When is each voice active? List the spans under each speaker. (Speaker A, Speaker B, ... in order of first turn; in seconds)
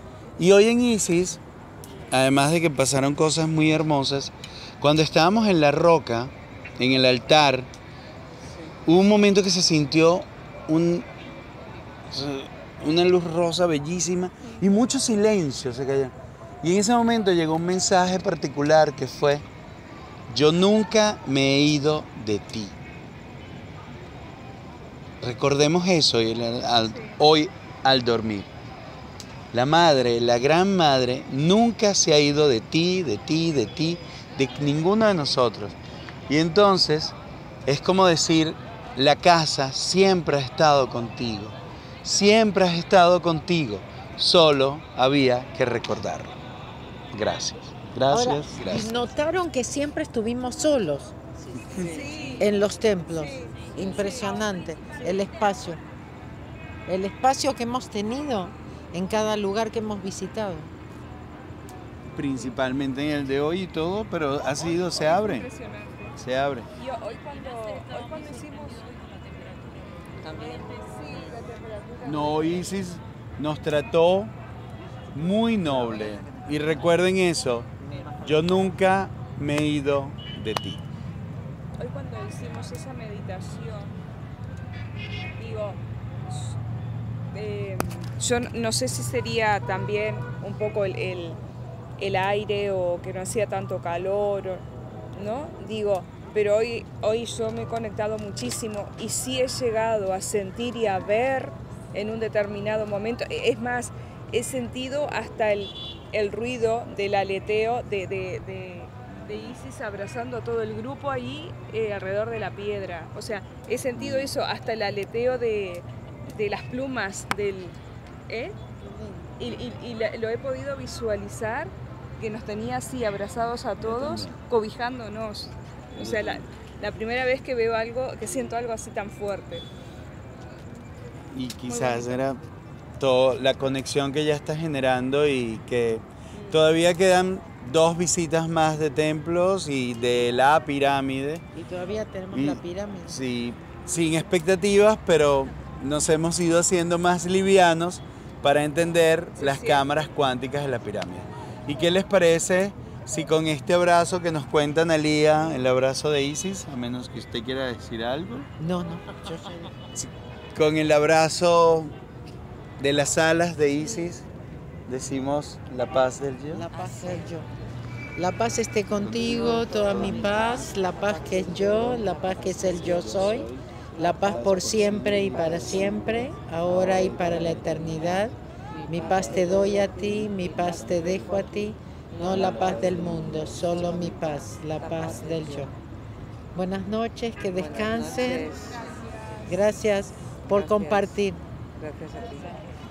Speaker A: 0.4-1.4, 2.1-7.7, 8.8-11.0, 12.1-19.4, 20.3-22.7, 25.2-28.5, 29.5-35.8, 36.3-37.1, 37.6-46.4, 47.1-49.0, 62.1-65.5, 66.2-66.7, 72.0-74.3, 75.1-77.7, 78.2-80.8, 114.0-114.3, 123.8-124.4, 126.0-126.4, 131.3-132.4, 133.0-141.4, 142.3-158.5, 159.9-161.9, 162.8-164.2, 164.9-166.7, 169.4-170.6
Speaker B: 26.9-27.2, 51.8-52.5, 53.1-53.5, 54.7-55.3, 64.4-66.2, 66.7-69.0, 70.2-72.7, 81.8-83.9, 85.4-86.6, 87.3-91.4, 92.0-117.8, 118.3-118.6, 119.4-129.6, 131.7-132.1, 149.4-149.9
Speaker C: 48.1-51.2, 52.4-55.8, 56.9-60.7, 141.5-143.2, 158.6-159.5, 166.5-167.5, 168.2-178.3, 178.9-185.7, 186.5-188.8, 189.4-191.4
Speaker D: 51.7-52.1, 70.2-70.7, 75.6-76.9, 77.8-78.4, 184.8-185.6, 187.5-188.5, 190.5-191.1, 191.8-192.6